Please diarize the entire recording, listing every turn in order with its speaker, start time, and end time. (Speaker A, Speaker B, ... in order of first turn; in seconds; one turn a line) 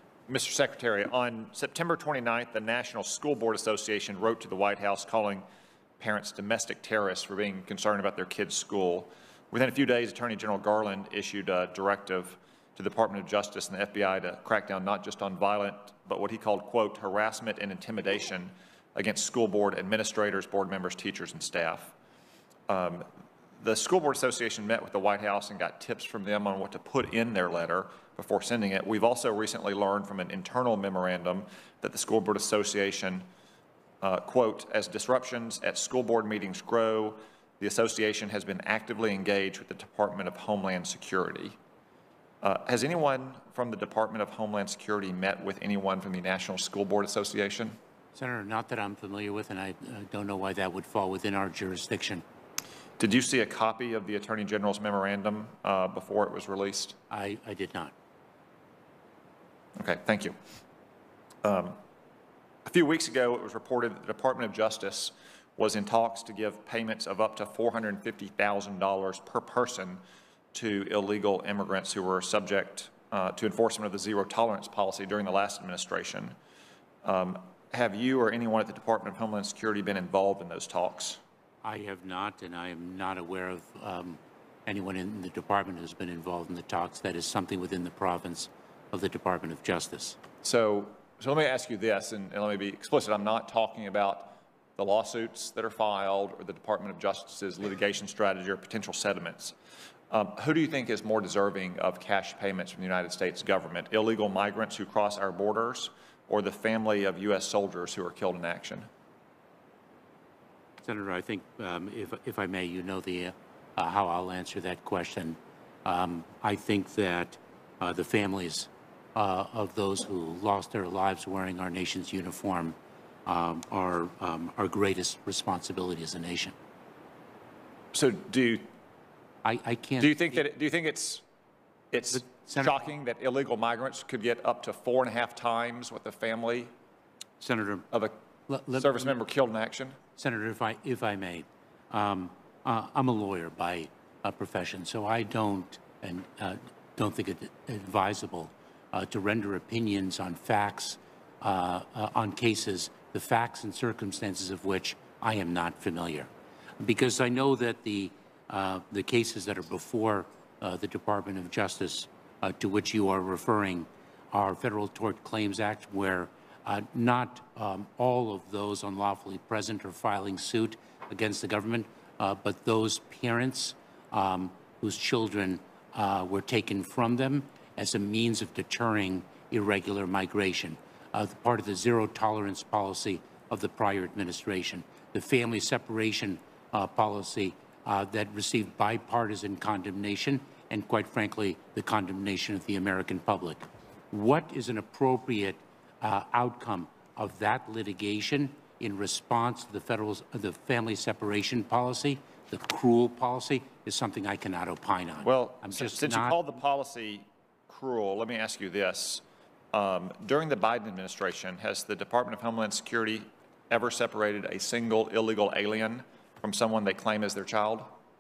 Speaker A: 0.3-5.4
Speaker A: 6.0-21.9
Speaker A: 22.7-23.1
Speaker A: 23.6-33.3
Speaker A: 34.0-41.6
Speaker A: 42.4-47.8
Speaker B: 48.1-52.2
Speaker A: 53.0-57.0
Speaker B: 57.1-57.9
Speaker A: 59.8-60.4
Speaker A: 61.4-61.8
Speaker A: 62.7-70.0
Speaker A: 70.5-76.4
Speaker A: 77.0-81.2
Speaker B: 81.6-90.2
Speaker A: 90.4-99.5
Speaker A: 100.1-108.9
Speaker B: 110.8-126.5
Speaker A: 127.9-128.7
Speaker B: 129.4-130.4
Speaker A: 130.0-131.2
Speaker A: 131.9-136.7
Speaker B: 132.1-132.9
Speaker B: 137.4-137.9
Speaker B: 138.5-139.1
Speaker A: 138.7-140.0
Speaker B: 140.2-156.3
Speaker B: 156.8-206.4
Speaker A: 205.2-217.9